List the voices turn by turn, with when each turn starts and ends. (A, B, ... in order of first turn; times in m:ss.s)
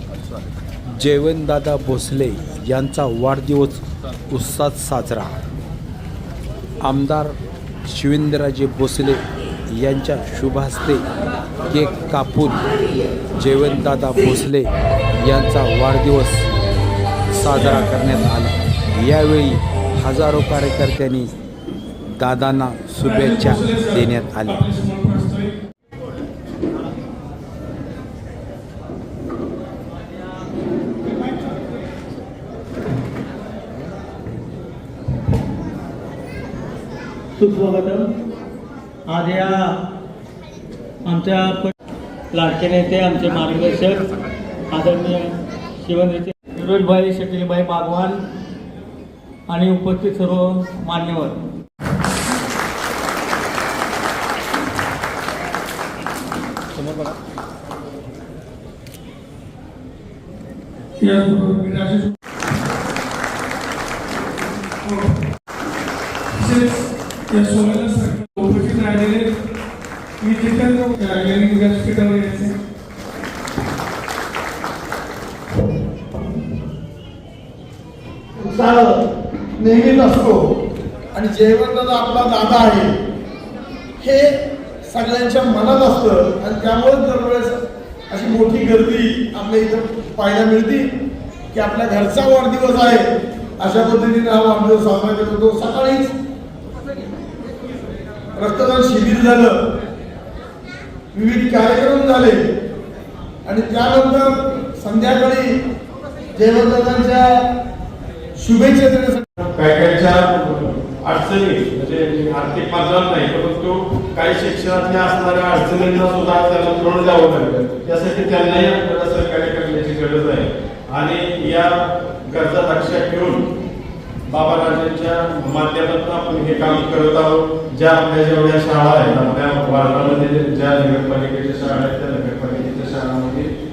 0:01.0-0:05.3 A
0:06.8-0:07.3 A
0:07.9-0:11.0 A
0:11.7-0:12.6 A
0:13.4-0:16.5 A
0:17.3-0:21.3 A
0:17.6-0:17.9 B
0:22.2-0:24.7 A
0:23.0-0:25.6 B
0:37.4-0:38.1 C
0:39.1-0:39.8 C
0:41.0-0:41.7 C
0:42.3-0:44.0 C
0:44.7-0:48.2 C
0:49.5-0:51.4 C
1:01.0-1:02.1 B
1:04.8-1:05.2 B
1:06.4-1:09.4 B
1:10.2-1:12.6 B
1:18.4-1:19.0 D
1:19.6-1:20.4 D
1:21.1-1:22.9 D
1:24.0-1:24.3 D
1:24.8-1:30.9 D
1:31.5-1:33.1 D
1:33.6-1:36.1 D
1:38.4-1:39.6 D
1:41.1-1:42.4 D
1:43.4-1:45.5 D
1:46.3-1:47.4 D
1:48.4-1:49.2 D
1:49.6-2:01.7 E
2:02.2-2:03.4 E
2:04.3-2:13.4 E